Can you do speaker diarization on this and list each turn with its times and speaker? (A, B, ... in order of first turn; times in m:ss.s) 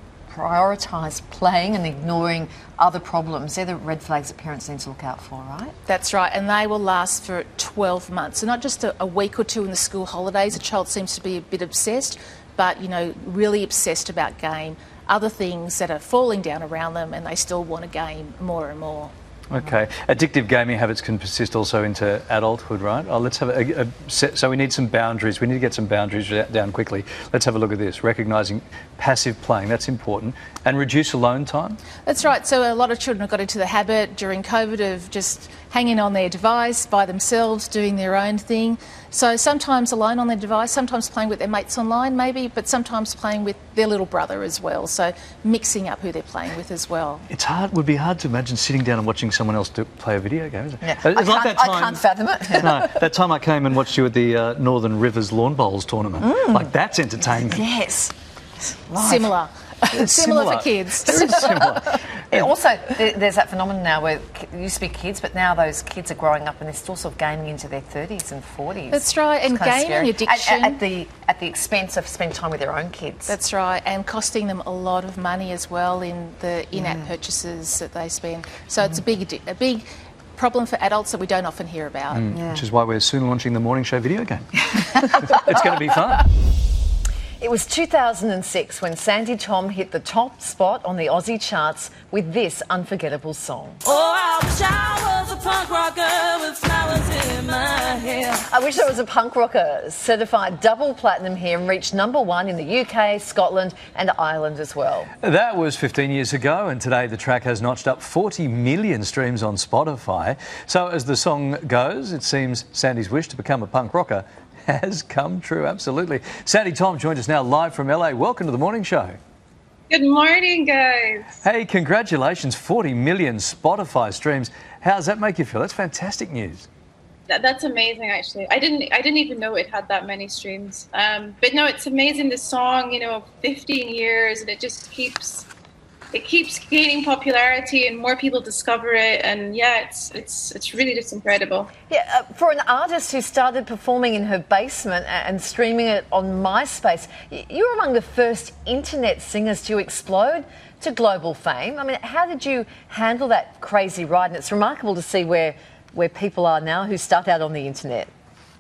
0:00.3-0:05.7 A
0:05.9-0:19.1 B
0:19.5-0:31.8 C
0:32.0-0:47.3 B
0:47.3-0:52.0 C
0:50.8-0:53.0 A
0:52.5-0:57.6 C
0:56.2-0:58.1 A
0:58.9-0:59.4 A
0:59.0-1:01.7 B
0:59.9-1:02.5 C
1:01.1-1:13.4 A
1:08.9-1:10.8 B
1:13.3-1:22.3 B
1:16.7-1:17.1 A
1:22.1-1:26.2 C
1:22.3-1:22.6 A
1:27.4-1:33.8 A
1:33.8-1:38.4 D
1:38.5-1:45.1 A
1:45.2-1:59.2 C
1:59.9-2:01.3 E
2:01.4-2:06.7 C
2:07.3-2:15.5 E
2:16.1-2:21.7 E
2:21.9-2:38.1 A